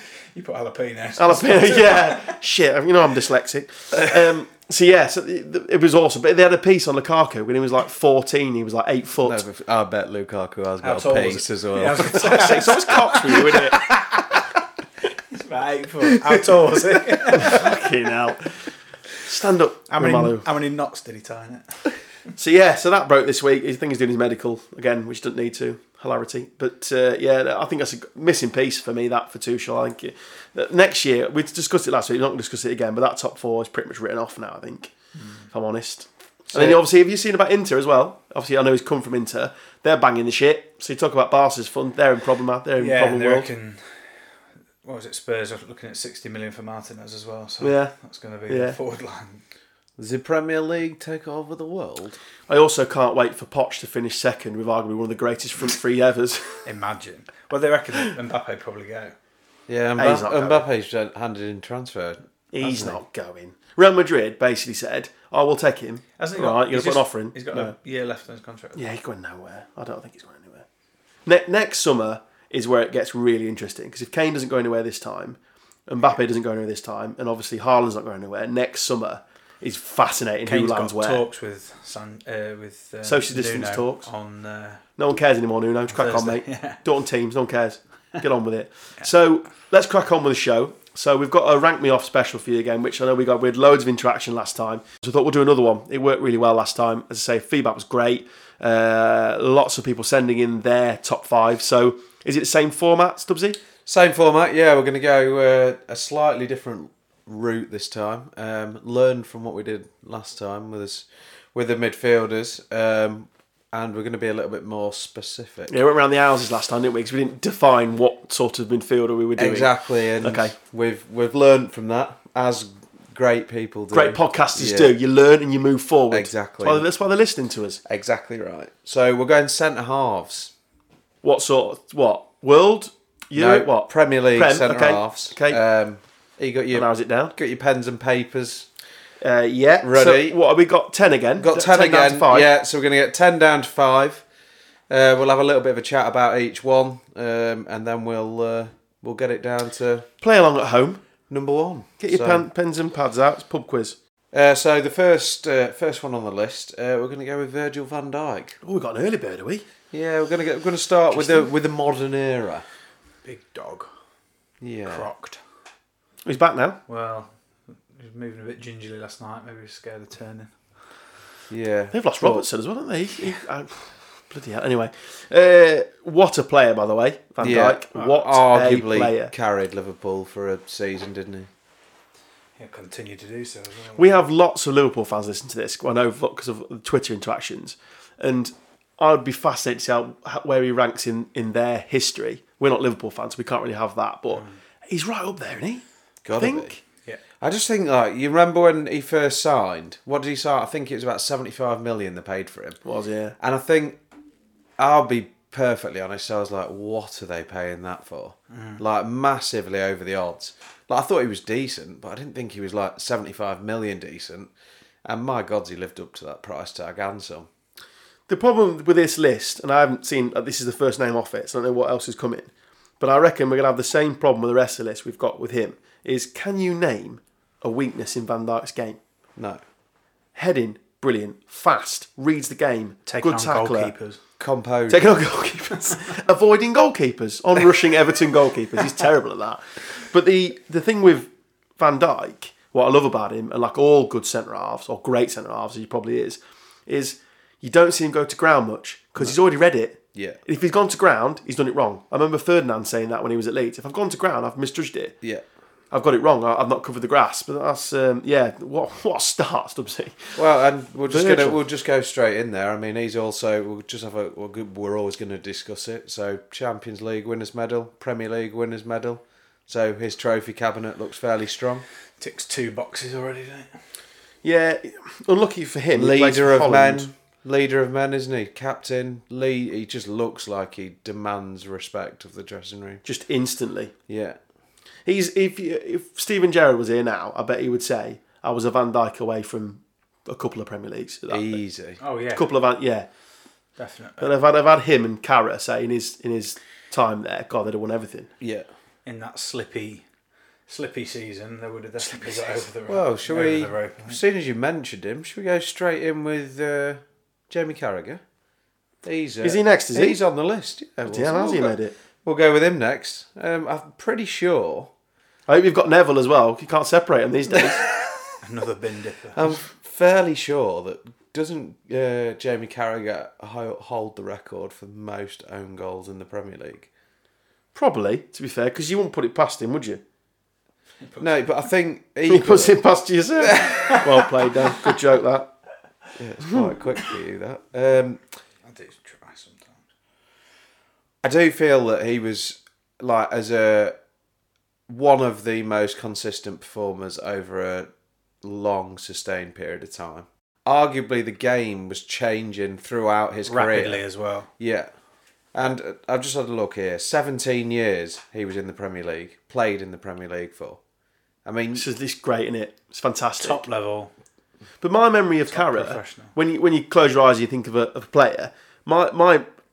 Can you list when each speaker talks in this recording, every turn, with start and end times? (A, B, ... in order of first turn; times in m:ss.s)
0:00.2-0:02.4 A
0:01.2-0:09.4 B
0:09.2-0:12.9 C
0:10.8-0:14.4 A
0:12.1-0:14.0 B
0:15.3-0:17.8 A
0:16.1-0:17.4 C
0:17.3-0:18.6 B
0:19.2-0:20.5 B
0:19.9-0:22.0 A
0:22.4-0:34.9 B
0:35.2-0:35.4 A
0:35.5-0:43.5 B
0:42.8-0:44.0 A
0:44.8-0:49.4 A
0:47.6-0:47.9 B
0:48.5-0:48.8 B
0:50.0-0:52.2 C
0:52.5-0:56.6 B
0:56.6-0:59.1 A
0:59.7-1:02.2 C
1:00.0-1:00.6 B
1:02.5-1:07.7 B
1:02.6-1:03.0 A
1:06.2-1:08.9 A
1:08.7-1:10.6 B
1:11.2-1:21.3 B
1:20.4-1:24.8 A
1:23.0-1:24.1 B
1:25.0-1:43.6 B
1:25.9-1:26.8 A
1:43.8-1:55.8 C
1:55.7-2:00.5 B
1:59.4-2:05.0 C
2:03.9-2:07.8 B
2:06.1-2:06.8 C
2:07.8-2:10.5 C
2:11.2-2:15.6 B
2:13.3-2:18.7 C
2:16.7-2:17.3 B
2:19.2-2:22.5 B
2:19.8-2:20.4 C
2:21.4-2:24.2 C
2:24.9-2:30.1 C
2:30.2-2:31.0 B
2:31.3-2:32.5 C
2:32.0-2:34.0 B
2:34.3-2:38.6 C
2:38.6-2:39.6 B
2:39.9-2:42.6 C
2:41.1-2:41.5 B
2:43.2-2:43.9 A
2:44.6-2:45.1 C
2:44.9-2:45.4 A
2:46.2-2:46.8 B
2:46.9-2:47.3 A
2:47.9-2:50.5 A
2:51.5-2:52.5 C
2:51.9-2:59.3 B
2:57.4-3:01.5 C
3:02.6-3:04.2 A
3:04.0-3:15.8 B
3:14.3-3:14.6 A
3:16.2-3:16.8 C
3:16.4-3:16.8 B
3:17.4-3:22.8 C
3:22.8-3:23.3 B
3:23.4-3:24.0 C
3:24.8-3:34.5 C
3:28.5-3:28.8 A
3:35.0-3:37.5 C
3:38.3-3:49.0 B
3:50.3-3:53.9 B
3:53.1-3:54.2 A
3:54.4-3:55.2 C
3:54.9-4:15.1 B
4:10.1-4:10.4 C
4:15.9-4:20.4 B
4:20.3-4:31.8 C
4:21.1-4:21.6 B
4:32.2-4:33.7 A
4:34.4-4:37.1 B
4:35.9-4:43.0 C
4:43.0-4:43.9 B
4:44.1-4:44.4 C
4:45.0-4:51.6 B
4:51.3-4:52.0 C
4:52.0-4:52.5 A
4:52.3-4:53.1 B
4:53.8-4:54.3 A
4:54.2-4:58.3 B
4:58.4-4:58.7 C
4:59.0-5:00.0 A
5:00.7-5:04.2 A
5:02.9-5:08.2 C
5:09.0-5:14.9 C
5:09.4-5:10.2 B
5:11.0-5:11.9 B
5:15.5-5:17.8 B
5:18.4-5:19.5 A
5:19.3-5:26.9 C
5:27.7-5:30.0 B
5:31.0-5:31.4 A
5:31.2-5:32.8 C
5:32.2-5:35.5 B
5:33.6-5:34.2 A
5:36.2-5:38.2 C
5:38.6-5:39.8 A
5:41.2-5:44.0 C
5:44.9-5:47.9 C
5:48.4-5:54.0 C
5:53.4-5:54.5 A
5:54.6-5:54.9 C
5:55.5-6:00.8 C
6:01.4-6:01.8 C
6:01.7-6:03.6 B
6:03.4-6:04.1 A
6:04.8-6:09.4 B
6:05.5-6:06.3 A